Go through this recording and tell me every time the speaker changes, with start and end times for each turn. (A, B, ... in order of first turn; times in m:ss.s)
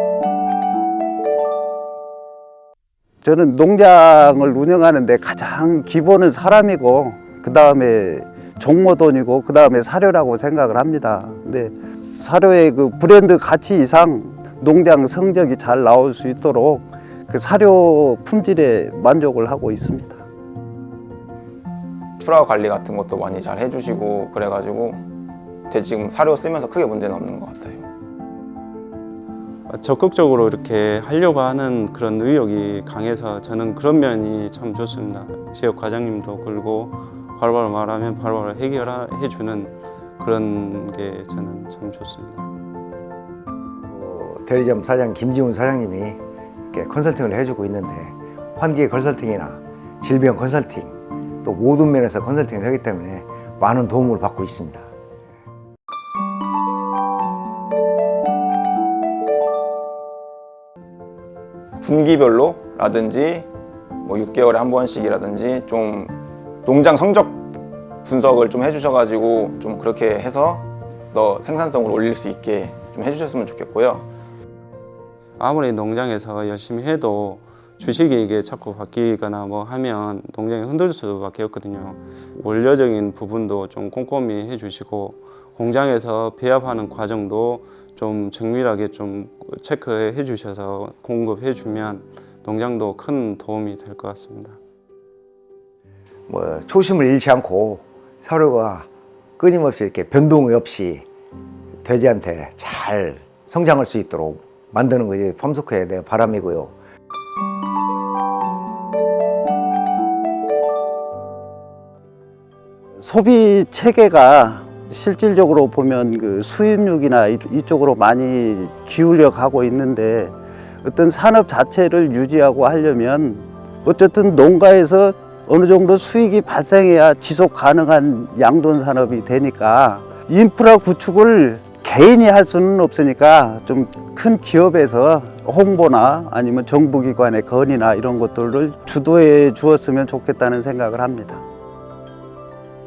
0:03.2-0:20.2 A
0:22.2-0:25.0 B
0:25.7-0:27.9 B
0:29.7-0:42.5 C
0:43.9-0:46.2 D
0:46.7-0:54.9 D
1:01.8-1:03.5 B
1:04.0-1:07.4 B
1:08.0-1:14.1 B
1:15.4-1:34.6 C
1:36.3-1:38.9 D
1:39.4-1:41.1 D
1:41.8-1:46.7 D
1:53.0-2:21.4 A